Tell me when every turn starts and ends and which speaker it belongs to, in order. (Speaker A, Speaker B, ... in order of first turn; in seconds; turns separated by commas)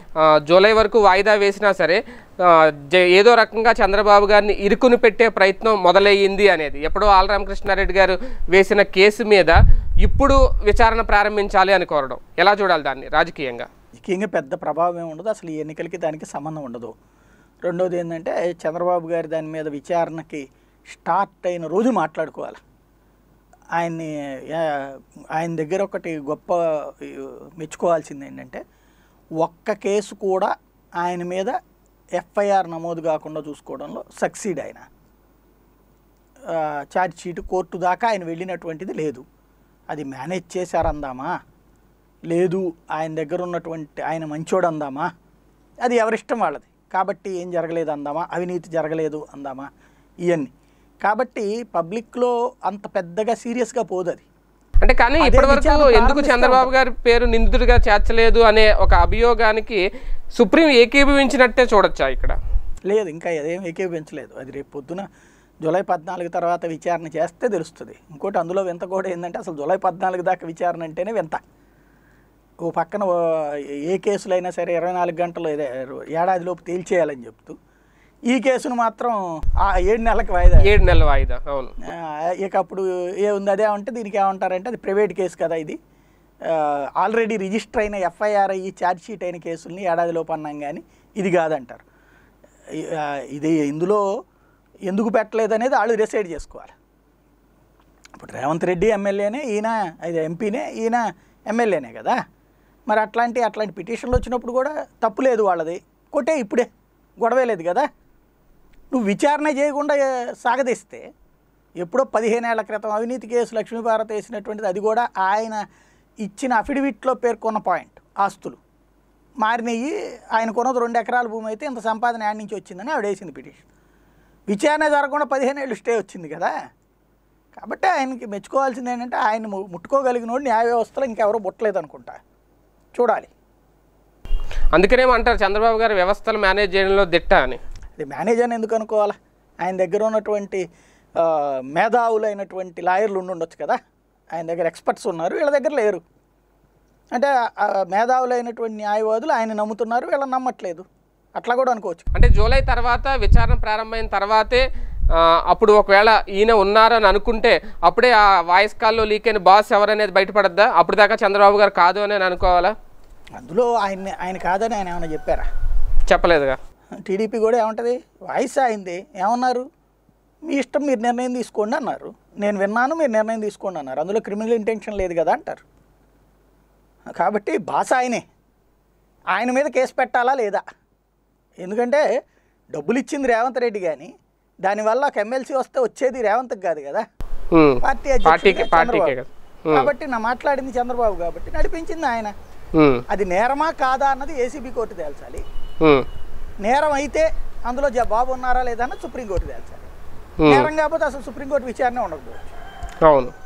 Speaker A: 0.5-13.7, Speaker B: 14.0-16.9, Speaker B: 17.6-22.6, Speaker B: 23.8-28.6, Speaker B: 29.4-31.6, Speaker B: 32.2-34.9, Speaker B: 36.5-39.2, Speaker B: 39.9-41.4, Speaker B: 42.3-45.1, Speaker B: 45.8-49.7, Speaker B: 51.0-54.3, Speaker A: 54.8-59.8, Speaker B: 55.2-56.7, Speaker A: 60.4-62.4, Speaker B: 62.9-65.1, Speaker B: 65.6-71.4, Speaker B: 72.6-77.6, Speaker B: 78.3-80.7, Speaker A: 80.6-81.7, Speaker B: 81.9-85.8, Speaker B: 86.5-91.8, Speaker B: 92.8-94.0, Speaker B: 94.9-96.7, Speaker B: 98.2-102.2, Speaker B: 102.9-106.7, Speaker B: 107.2-107.9, Speaker B: 108.9-111.0, Speaker B: 111.8-115.6, Speaker B: 116.2-118.6, Speaker B: 119.4-123.7, Speaker B: 124.5-126.5, Speaker B: 127.6-132.2, Speaker B: 132.9-133.3, Speaker A: 134.7-137.6, Speaker B: 138.0-140.6, Speaker B: 141.2-143.8, Speaker B: 144.3-146.0, Speaker B: 147.1-150.8, Speaker B: 151.4-152.1, Speaker A: 152.1-154.6, Speaker A: 155.2-162.7, Speaker B: 163.4-165.5, Speaker A: 166.1-166.6, Speaker B: 167.1-169.6, Speaker B: 170.5-175.6, Speaker B: 177.2-178.2, Speaker B: 179.3-180.6, Speaker B: 181.6-182.0, Speaker B: 182.7-184.1, Speaker B: 184.6-187.0, Speaker A: 187.5-189.9, Speaker B: 187.8-189.2, Speaker B: 189.7-192.3, Speaker A: 192.8-193.0, Speaker B: 193.1-195.4, Speaker B: 196.6-199.9, Speaker A: 200.4-200.7, Speaker B: 200.5-202.6, Speaker A: 203.1-203.3